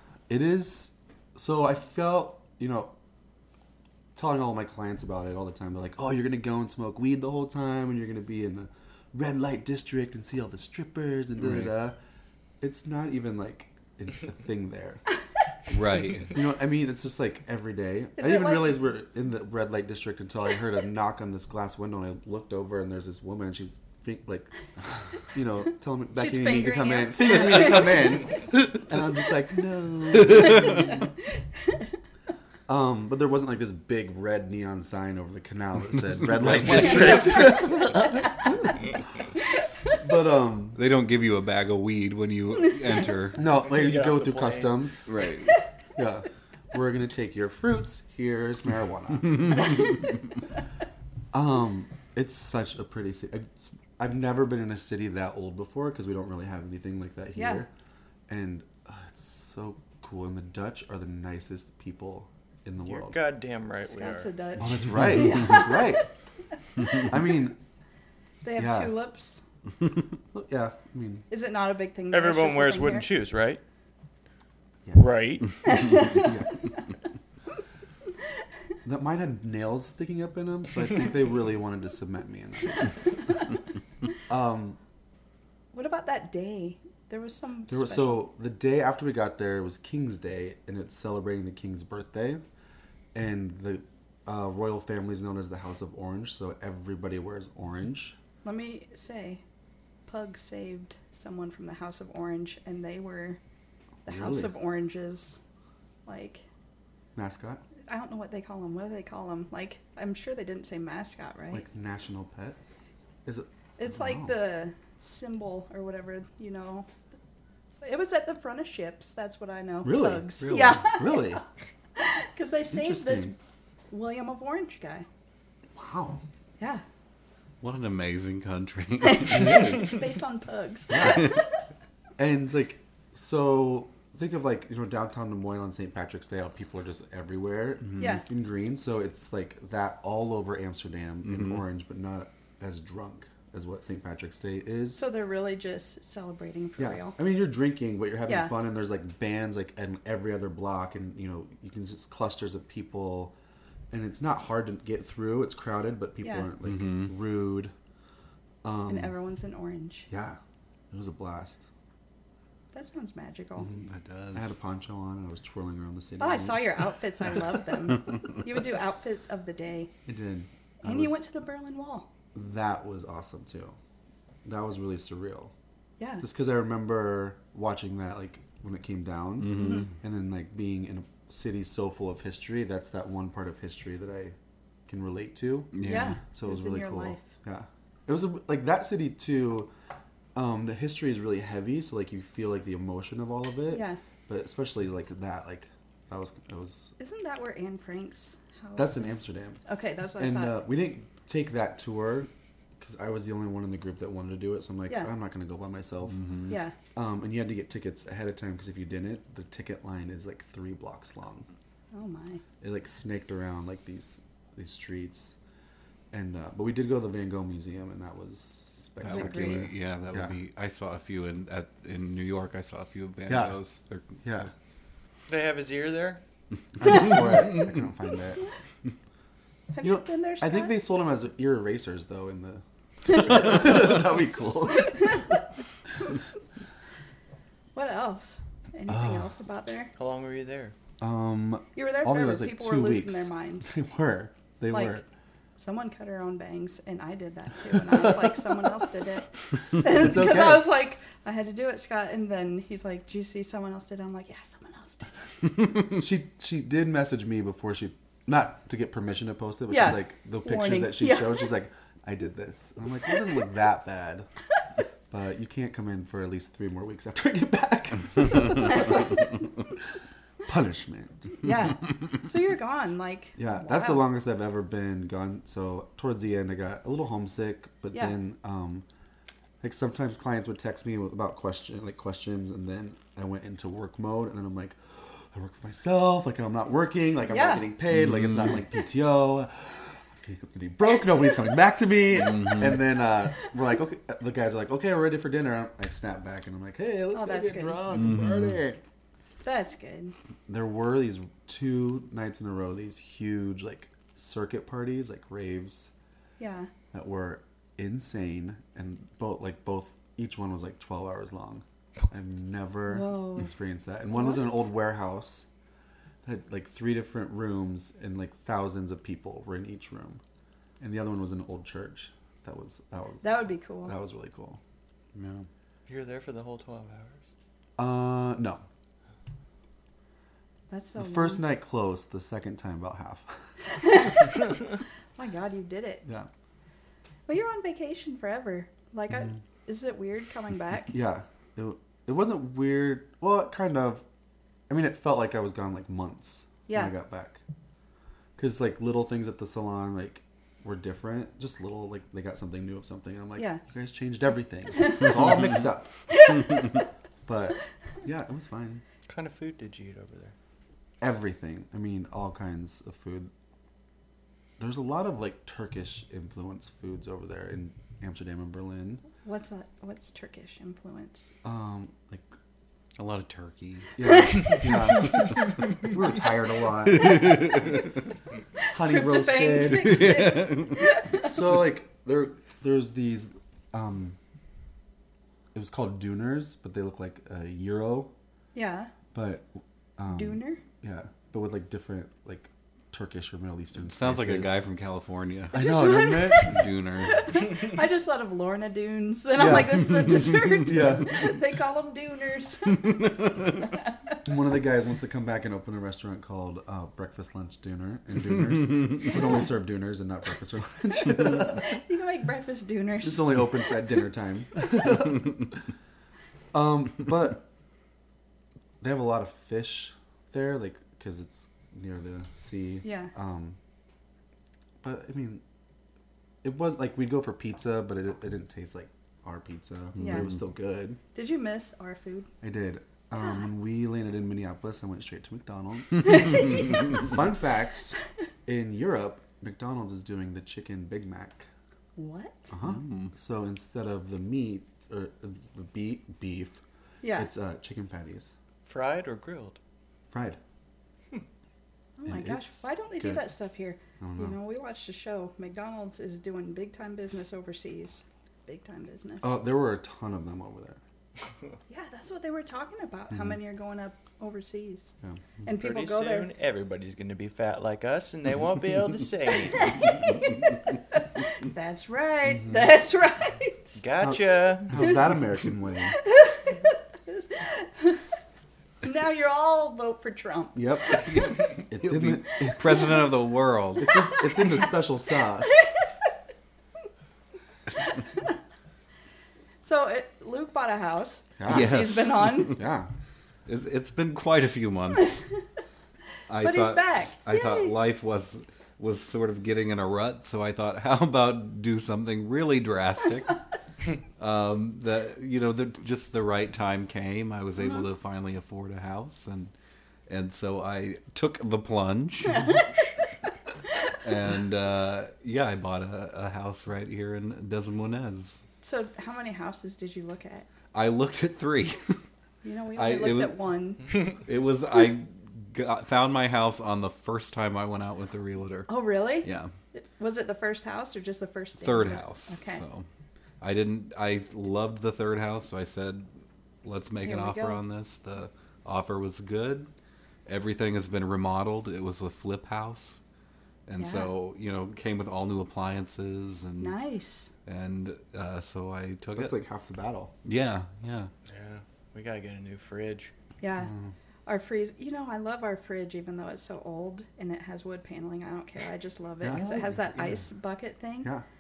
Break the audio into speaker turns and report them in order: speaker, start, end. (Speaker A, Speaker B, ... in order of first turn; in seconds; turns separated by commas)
Speaker A: 0.3-2.9, Speaker A: 4.1-12.0, Speaker B: 11.4-11.7, Speaker A: 12.6-15.0, Speaker B: 15.7-16.4, Speaker A: 16.3-24.5, Speaker C: 18.2-18.8, Speaker A: 25.2-31.0, Speaker C: 26.1-28.0, Speaker A: 32.7-38.8, Speaker B: 36.2-37.8, Speaker C: 37.0-37.8, Speaker A: 40.0-40.8, Speaker B: 40.8-43.5, Speaker A: 43.3-45.0, Speaker D: 43.5-44.8, Speaker B: 45.0-45.5, Speaker A: 46.0-49.8, Speaker A: 51.3-57.7, Speaker C: 57.4-57.6, Speaker A: 58.3-63.2, Speaker D: 62.8-64.3, Speaker C: 63.8-66.1, Speaker A: 64.6-66.1, Speaker A: 66.9-67.6, Speaker C: 68.4-69.4, Speaker A: 68.5-68.9, Speaker A: 70.3-71.3, Speaker C: 71.3-73.1, Speaker D: 72.1-73.6, Speaker A: 74.8-75.2, Speaker D: 75.0-75.5, Speaker C: 75.6-76.4, Speaker A: 75.9-76.8, Speaker A: 78.8-83.0, Speaker A: 84.3-84.8, Speaker C: 85.7-88.3, Speaker A: 87.7-92.4, Speaker A: 93.1-98.2, Speaker C: 98.4-99.4, Speaker C: 100.1-103.4, Speaker A: 104.0-104.5, Speaker C: 104.0-105.4, Speaker C: 106.0-106.4, Speaker A: 107.1-107.6, Speaker C: 107.9-111.7, Speaker A: 111.5-112.6, Speaker A: 113.2-114.4, Speaker C: 113.8-116.9, Speaker C: 117.8-121.4, Speaker A: 119.8-121.4, Speaker B: 120.4-120.9, Speaker C: 122.0-123.3, Speaker A: 122.7-123.3, Speaker C: 123.9-125.0, Speaker A: 125.7-126.2, Speaker B: 127.6-129.8, Speaker C: 129.0-131.4, Speaker A: 129.2-130.0, Speaker A: 130.9-131.4, Speaker A: 132.2-145.0, Speaker C: 138.0-138.2, Speaker B: 141.2-141.6, Speaker C: 144.9-147.2, Speaker A: 146.8-153.3, Speaker C: 148.3-148.5, Speaker A: 153.9-157.7, Speaker C: 156.2-156.5, Speaker B: 156.7-157.1, Speaker A: 158.6-159.1, Speaker C: 158.9-160.1, Speaker A: 160.1-160.4, Speaker A: 160.9-161.6, Speaker C: 162.7-163.7, Speaker B: 163.7-164.5, Speaker A: 164.3-166.8, Speaker C: 166.2-169.9, Speaker A: 170.1-171.2, Speaker C: 170.8-172.1, Speaker A: 172.3-173.8, Speaker A: 174.4-175.5, Speaker C: 176.0-176.2, Speaker A: 176.2-184.3, Speaker B: 179.4-179.9, Speaker C: 179.6-179.9, Speaker A: 184.9-185.8, Speaker B: 185.7-186.2, Speaker C: 185.8-187.3, Speaker A: 186.3-189.7, Speaker A: 190.3-196.9, Speaker C: 193.7-194.0, Speaker C: 197.0-200.6, Speaker A: 198.8-199.6, Speaker A: 200.2-206.2, Speaker B: 206.1-206.5, Speaker C: 206.5-206.7, Speaker A: 206.9-211.4, Speaker C: 211.9-212.4, Speaker A: 212.6-215.3, Speaker A: 216.1-220.3, Speaker B: 219.0-224.5, Speaker C: 219.0-219.7, Speaker A: 223.3-223.6, Speaker A: 224.2-224.5, Speaker D: 225.3-226.2, Speaker A: 226.8-228.4, Speaker C: 229.7-230.8, Speaker A: 229.8-235.4, Speaker C: 233.1-233.7, Speaker C: 234.9-235.2, Speaker C: 237.7-239.9, Speaker A: 238.9-239.3, Speaker D: 240.0-240.7, Speaker A: 241.0-245.0, Speaker C: 241.7-243.8, Speaker C: 244.7-245.0, Speaker C: 245.6-255.2, Speaker A: 247.7-248.5, Speaker A: 249.8-250.7, Speaker A: 255.9-264.3, Speaker C: 259.7-261.5, Speaker A: 265.1-269.2, Speaker A: 270.4-271.4, Speaker C: 271.4-274.1, Speaker A: 273.4-278.8, Speaker A: 279.6-298.8, Speaker C: 287.3-287.7, Speaker B: 287.9-288.6, Speaker B: 292.2-292.8, Speaker C: 297.1-297.9, Speaker B: 297.9-298.6, Speaker C: 299.4-300.1, Speaker A: 300.5-305.9, Speaker C: 306.4-306.7, Speaker A: 306.9-315.5, Speaker C: 312.9-313.5, Speaker C: 314.1-314.5, Speaker A: 316.2-320.2, Speaker A: 320.8-324.6, Speaker C: 323.2-324.0, Speaker B: 325.1-325.5, Speaker D: 325.9-327.2, Speaker A: 327.8-328.6, Speaker C: 330.7-331.5, Speaker A: 331.0-333.4, Speaker C: 333.7-334.4, Speaker C: 335.2-336.0, Speaker C: 337.3-340.9, Speaker A: 340.9-344.0, Speaker A: 344.7-347.4, Speaker C: 346.7-346.9, Speaker A: 348.4-355.9, Speaker C: 354.8-355.1, Speaker C: 356.1-356.7, Speaker A: 357.2-358.8, Speaker D: 359.1-360.3, Speaker A: 361.0-363.3, Speaker A: 364.6-369.0, Speaker C: 369.2-371.3, Speaker A: 371.4-372.2, Speaker B: 373.0-373.9, Speaker A: 373.9-377.7, Speaker C: 374.1-374.5, Speaker B: 377.0-377.6, Speaker C: 378.6-381.3, Speaker A: 378.7-380.2, Speaker B: 379.8-380.8, Speaker A: 381.1-384.2, Speaker A: 385.5-388.1, Speaker C: 388.5-388.9, Speaker A: 389.1-394.6, Speaker C: 390.1-390.6, Speaker B: 393.8-395.7, Speaker A: 395.5-396.6, Speaker C: 395.5-403.0, Speaker B: 396.4-397.3, Speaker A: 399.3-401.3, Speaker B: 402.9-403.5, Speaker A: 404.2-411.7, Speaker C: 411.2-413.7, Speaker A: 413.0-415.6, Speaker A: 416.5-417.5, Speaker A: 418.8-423.6, Speaker C: 422.8-423.1, Speaker A: 424.8-425.4, Speaker A: 426.4-431.0, Speaker B: 430.0-430.4, Speaker C: 430.0-430.3, Speaker C: 431.1-432.3, Speaker A: 432.4-441.5, Speaker C: 433.2-433.5, Speaker C: 436.1-437.0, Speaker C: 441.9-442.5, Speaker A: 442.5-446.6, Speaker B: 442.6-443.1, Speaker C: 447.0-447.3, Speaker A: 447.1-448.3, Speaker D: 448.6-449.6, Speaker A: 450.1-450.4, Speaker C: 452.0-459.4, Speaker A: 452.1-453.3, Speaker A: 454.0-454.4, Speaker A: 459.2-460.8, Speaker C: 461.7-464.9, Speaker A: 463.1-463.4, Speaker C: 465.4-466.3, Speaker D: 465.6-469.9, Speaker C: 469.6-470.1, Speaker C: 470.9-473.8, Speaker D: 473.8-474.8, Speaker A: 474.0-475.9, Speaker C: 476.0-478.0, Speaker C: 478.8-480.6, Speaker A: 480.5-483.0, Speaker B: 481.0-484.0, Speaker A: 483.8-485.5, Speaker C: 483.9-484.2, Speaker C: 489.6-492.6, Speaker A: 491.4-492.9, Speaker B: 491.5-492.6, Speaker B: 493.5-495.2, Speaker B: 496.3-503.4, Speaker C: 496.4-497.7, Speaker B: 504.2-509.5, Speaker B: 510.1-512.6, Speaker B: 514.0-518.4, Speaker C: 518.6-520.5, Speaker B: 520.7-522.0, Speaker C: 522.4-524.0, Speaker B: 522.8-523.4, Speaker B: 524.1-529.5, Speaker C: 528.7-532.6, Speaker B: 531.6-532.9, Speaker B: 533.4-536.1, Speaker B: 536.6-539.7, Speaker C: 537.0-537.6, Speaker B: 540.2-543.0, Speaker B: 543.7-546.8, Speaker C: 543.8-544.1, Speaker C: 546.6-547.3, Speaker B: 547.5-549.3, Speaker A: 549.1-550.1, Speaker B: 550.2-551.1, Speaker D: 551.3-553.1, Speaker C: 553.4-553.7, Speaker A: 553.6-553.9, Speaker C: 554.2-561.1, Speaker A: 559.2-560.2